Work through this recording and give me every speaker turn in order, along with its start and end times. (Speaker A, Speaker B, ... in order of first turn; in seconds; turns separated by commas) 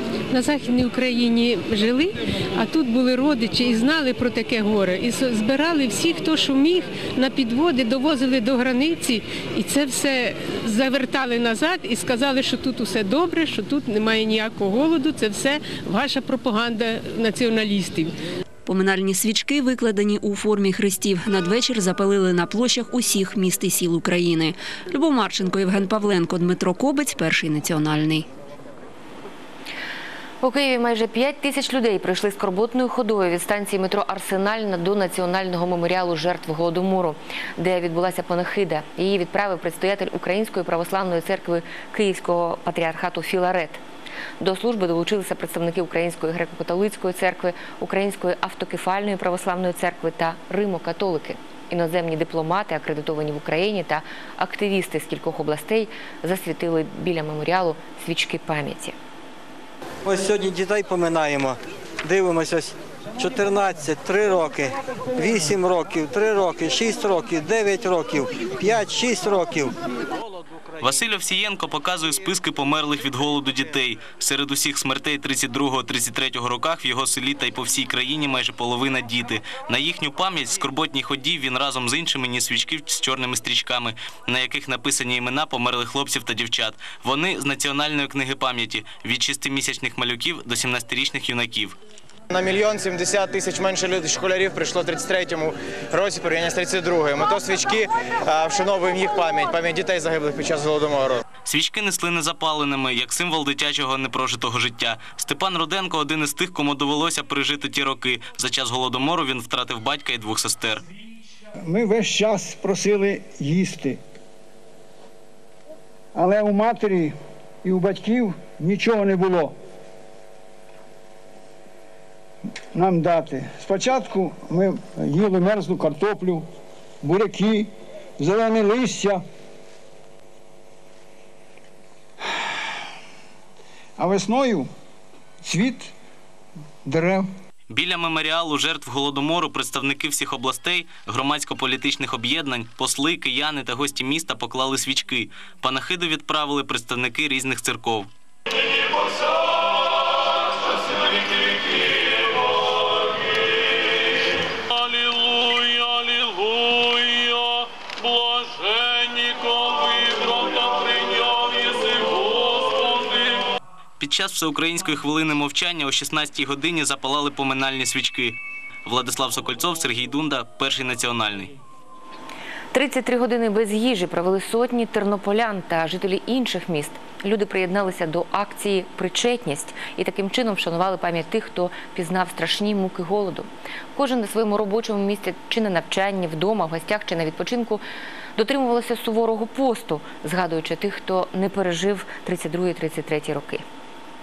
Speaker A: 0.3-18.1, Speaker B: 18.7-28.2, Speaker C: 30.4-43.8, Speaker C: 44.4-58.9, Speaker D: 60.0-69.7, Speaker E: 70.8-91.8, Speaker F: 92.3-101.2, Speaker E: 101.5-110.8, Speaker G: 111.6-114.0, Speaker G: 116.1-119.5, Speaker G: 122.7-126.5, Speaker G: 127.0-129.2, Speaker G: 134.0-134.7, Speaker G: 135.4-135.9, Speaker G: 136.8-137.2, Speaker E: 137.7-148.1, Speaker E: 164.0-171.5, Speaker C: 172.7-187.8, Speaker C: 188.3-193.6